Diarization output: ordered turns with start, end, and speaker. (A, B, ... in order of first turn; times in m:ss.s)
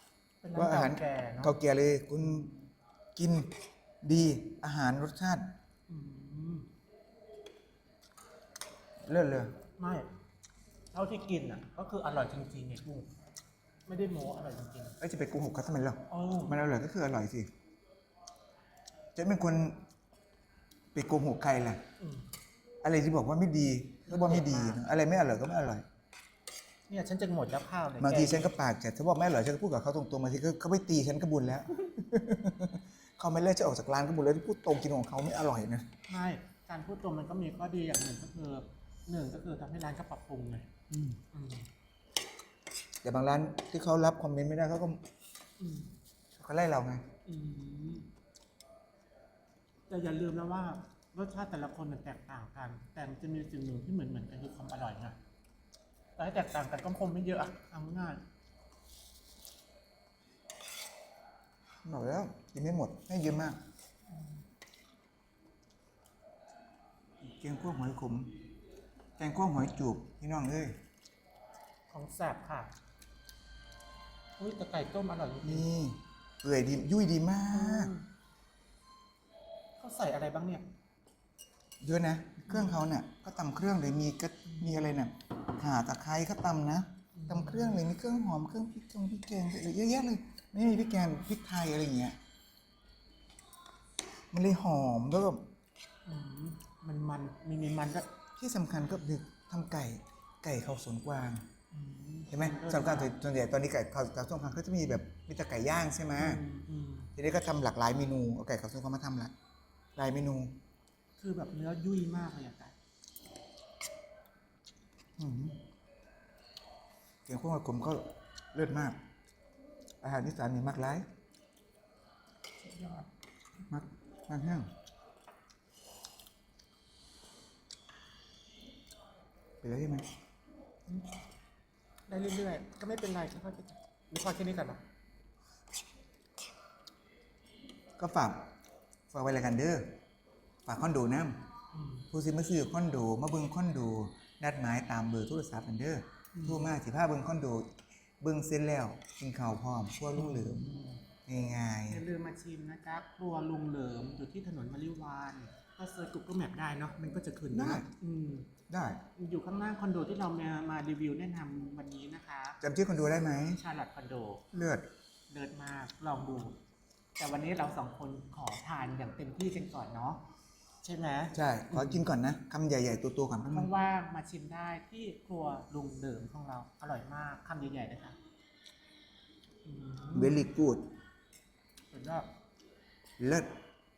0:00.4-0:01.6 A
0:00.5-0:02.5 B
0:03.2-0:05.5 B
0:05.9-0:06.7 A
0:09.0-0:09.6 B
0:09.8-0:10.1 A
0:10.9-0:13.1 A
0:13.8-0:15.0 A
0:15.0-0:17.5 B
0:16.1-0:16.6 A
0:19.1-0:19.8 B
0:20.9-0:21.8 B
0:22.0-0:22.2 A
0:22.8-0:25.8 B
0:24.1-0:24.8 A
0:26.9-0:28.5 A
0:28.0-0:35.9 B
0:36.1-0:40.7 A
0:40.9-0:41.2 B
0:41.3-0:41.7 A
0:43.0-0:45.0 B
0:45.6-0:45.9 A
0:46.4-0:47.0 B
0:47.2-0:48.1 A
0:49.9-0:55.2 A
0:56.2-0:58.2 A
1:01.8-1:03.6 B
1:07.2-1:08.4 B
1:09.2-1:10.8 B
1:11.9-1:12.7 A
1:14.4-1:15.7 A
1:15.4-1:17.9 B
1:17.5-1:18.0 A
1:19.8-1:20.7 A
1:21.8-1:32.2 B
1:22.5-1:22.8 A
1:27.1-1:27.8 A
1:34.3-1:35.5 B
1:36.0-1:38.1 A
1:38.4-1:41.4 B
1:41.7-1:43.2 A
1:42.3-1:46.4 B
1:46.2-1:47.1 A
1:47.2-1:49.3 B
1:50.0-1:50.6 B
1:51.2-1:52.7 A
1:55.2-1:55.6 B
1:57.2-1:59.0 B
2:00.0-2:01.0 B
2:02.6-2:03.1 A
2:03.6-2:04.7 B
2:09.6-2:10.1 B
2:12.1-2:14.8 A
2:18.0-2:18.5 B
2:19.1-2:20.0 B
2:20.6-2:21.4 B
2:21.7-2:22.1 A
2:22.1-2:27.7 B
2:26.3-2:26.7 A
2:28.2-2:32.0 B
2:30.1-2:31.0 A
2:31.9-2:38.5 A
2:37.5-2:37.9 B
2:38.7-2:39.0 B
2:39.1-2:42.6 A
2:42.6-2:43.6 B
2:43.4-2:44.4 A
2:44.5-2:44.8 B
2:45.3-2:46.6 A
2:47.2-2:50.2 A
2:50.8-2:52.0 A
2:51.3-2:53.7 B
2:53.5-2:58.2 A
2:59.6-3:00.4 A
3:00.1-3:00.9 B
3:01.9-3:02.3 A
3:03.2-3:03.5 B